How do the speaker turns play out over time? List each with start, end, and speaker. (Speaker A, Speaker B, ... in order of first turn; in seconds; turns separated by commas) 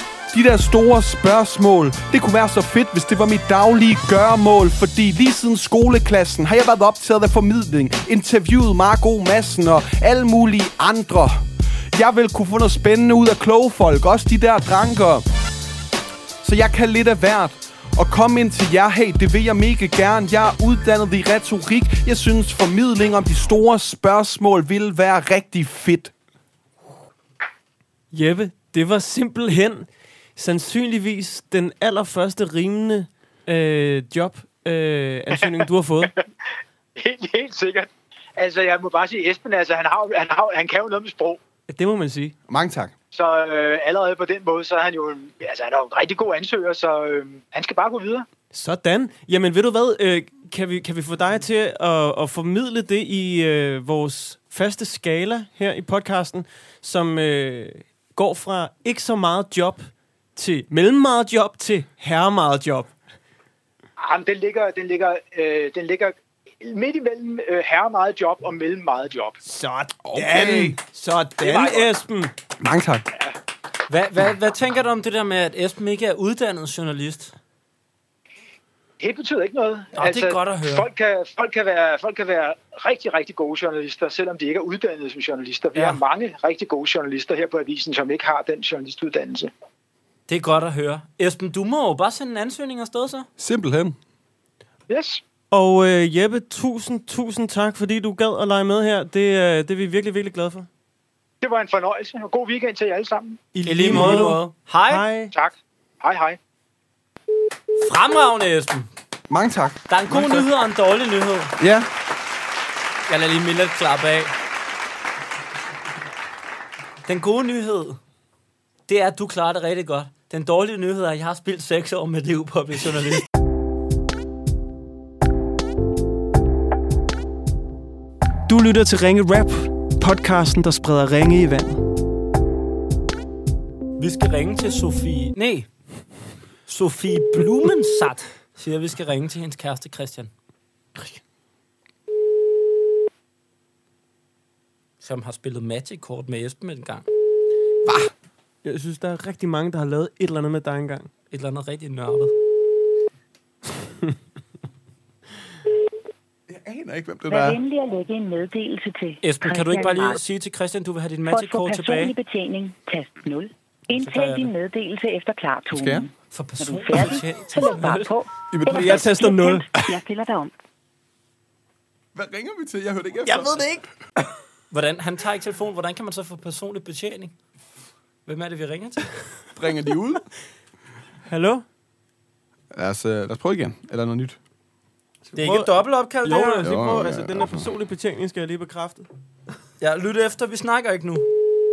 Speaker A: 0.3-15.2, Speaker A: 16.4-26.1, Speaker B: 28.1-36.1, Speaker C: 37.0-41.4, Speaker B: 41.7-42.3, Speaker A: 42.5-42.9, Speaker C: 43.1-48.3, Speaker B: 48.5-62.9, Speaker C: 64.0-69.4, Speaker B: 69.5-72.3, Speaker A: 70.0-70.8, Speaker D: 71.4-71.9, Speaker A: 72.6-73.0, Speaker D: 73.9-77.3, Speaker C: 79.0-89.5, Speaker D: 80.0-80.9, Speaker D: 85.8-86.0, Speaker D: 90.3-93.3, Speaker A: 93.4-94.0, Speaker C: 94.9-95.2, Speaker B: 95.5-100.7, Speaker C: 101.4-103.4, Speaker B: 103.5-105.3, Speaker D: 103.7-105.0, Speaker C: 104.0-104.2, Speaker C: 105.3-106.4, Speaker D: 107.8-108.9, Speaker A: 109.3-110.5, Speaker D: 109.9-111.5, Speaker A: 111.6-111.9, Speaker D: 113.1-114.3, Speaker D: 117.1-118.0, Speaker D: 118.9-123.2, Speaker B: 128.5-131.8, Speaker D: 134.0-135.7, Speaker D: 136.7-140.3, Speaker D: 145.0-147.1, Speaker A: 147.8-148.1, Speaker B: 148.6-151.1, Speaker D: 151.3-152.3, Speaker A: 156.5-157.6, Speaker E: 157.3-160.2, Speaker D: 159.2-162.1, Speaker E: 161.2-170.5, Speaker D: 164.0-164.5, Speaker A: 165.7-166.1, Speaker D: 166.3-168.1, Speaker A: 168.5-169.1, Speaker B: 168.7-169.7, Speaker A: 172.1-173.8, Speaker B: 173.3-173.8, Speaker D: 174.7-177.3, Speaker D: 178.3-179.1, Speaker A: 179.6-180.2, Speaker B: 181.3-181.6, Speaker A: 182.7-184.4, Speaker B: 185.3-189.1, Speaker D: 185.4-186.6, Speaker A: 186.6-187.7, Speaker D: 189.8-191.3